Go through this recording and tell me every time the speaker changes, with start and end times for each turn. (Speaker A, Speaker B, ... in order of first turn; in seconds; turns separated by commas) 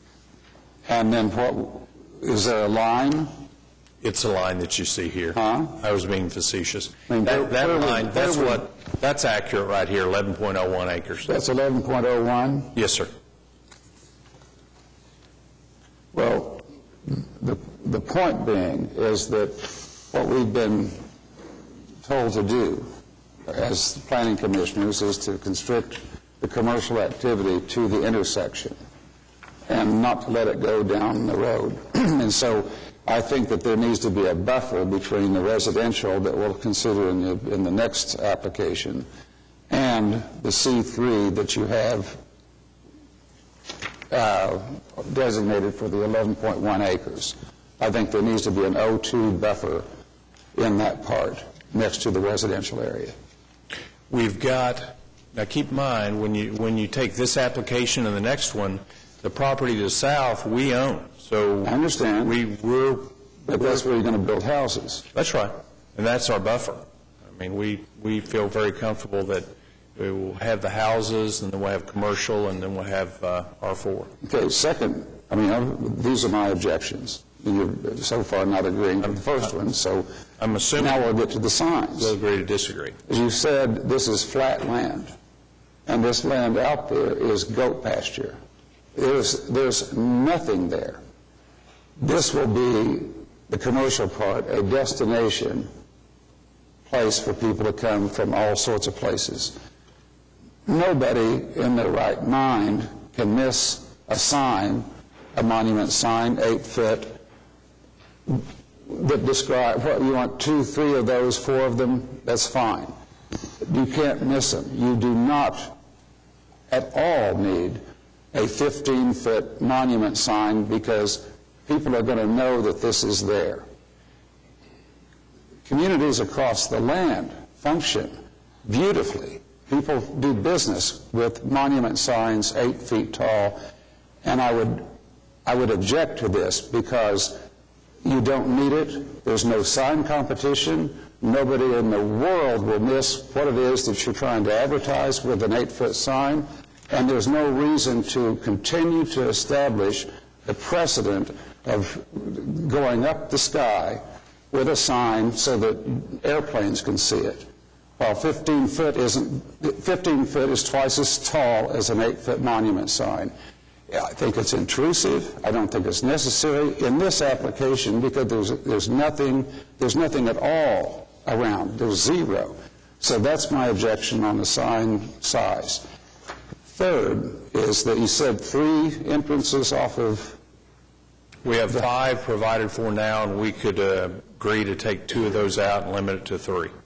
Speaker A: 0.9-3.3, Speaker B: 4.0-11.3, Speaker A: 5.3-5.8, Speaker A: 7.1-8.6, Speaker A: 11.2-12.8, Speaker B: 12.7-13.1, Speaker A: 16.1-21.0, Speaker A: 22.0-22.9, Speaker A: 23.5-28.8, Speaker A: 29.7-39.0, Speaker A: 39.7-42.2, Speaker A: 44.1-49.9, Speaker A: 50.5-53.1, Speaker B: 54.1-63.7, Speaker A: 61.6-62.4, Speaker A: 63.5-65.0, Speaker B: 65.1-74.1, Speaker A: 74.2-80.1, Speaker B: 80.4-81.0, Speaker A: 80.8-82.1, Speaker B: 82.0-83.0, Speaker A: 83.1-85.1, Speaker A: 85.8-88.4, Speaker A: 88.9-91.0, Speaker A: 92.0-95.7, Speaker A: 96.9-99.5, Speaker A: 100.7-107.2, Speaker A: 108.3-112.9, Speaker A: 113.6-115.8, Speaker A: 116.7-117.8, Speaker A: 118.3-123.6, Speaker A: 125.7-128.1, Speaker A: 128.7-133.6, Speaker A: 134.2-134.9, Speaker A: 135.4-137.3, Speaker A: 138.0-157.4, Speaker A: 158.0-163.3, Speaker A: 163.9-175.8, Speaker A: 176.7-180.4, Speaker B: 181.4-186.7